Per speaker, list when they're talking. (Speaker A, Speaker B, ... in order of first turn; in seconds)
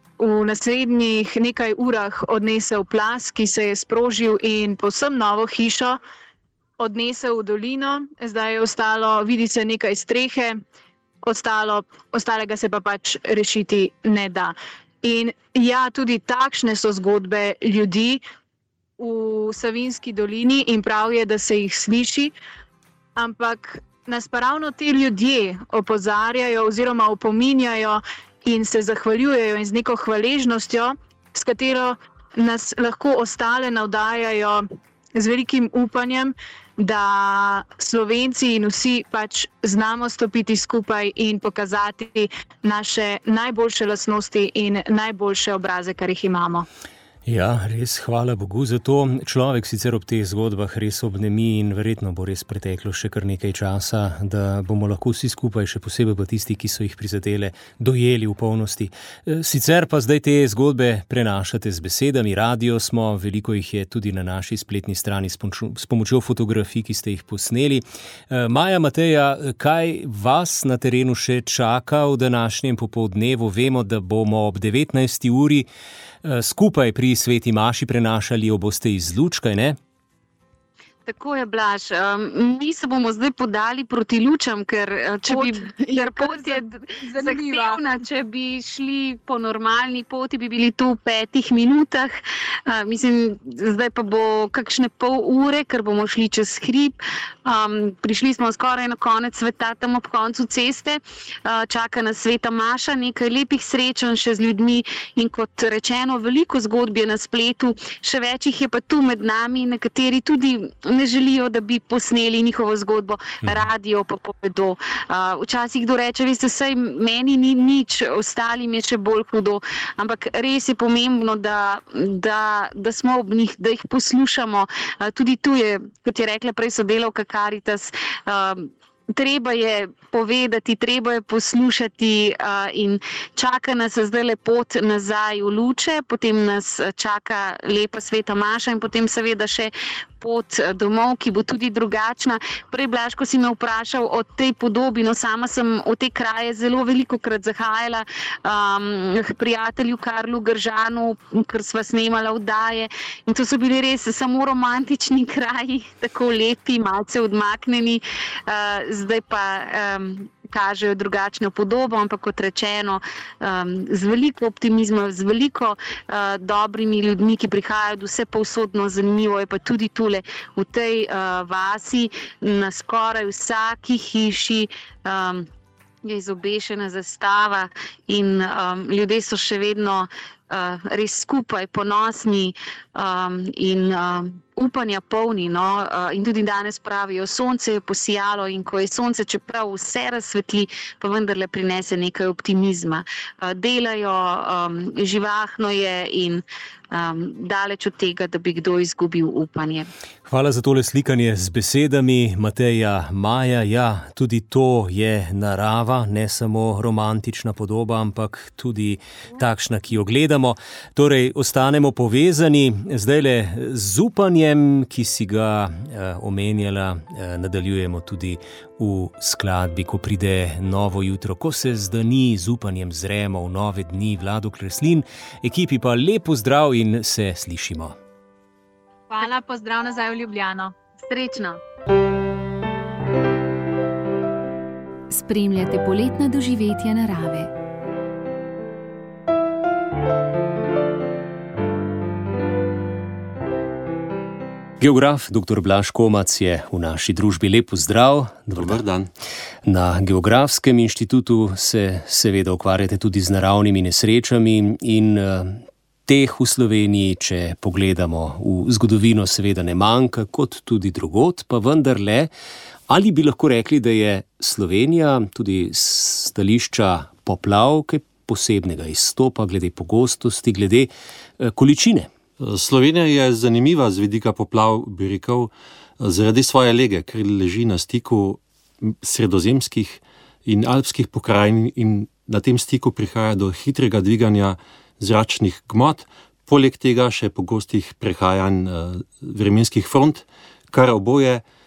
Speaker A: 0.2-6.0, 6.8-10.6, 11.2-18.2, 19.0-22.3, 23.1-46.6, 85.3-87.9, 229.1-230.7
Speaker B: 47.2-75.7, 76.2-79.8, 200.3-228.0, 244.8-248.8, 249.6-262.3, 262.9-272.1
Speaker C: 81.1-175.5, 176.0-199.9, 231.0-231.6
Speaker D: 235.1-237.5
Speaker E: 248.5-249.1, 272.4-291.4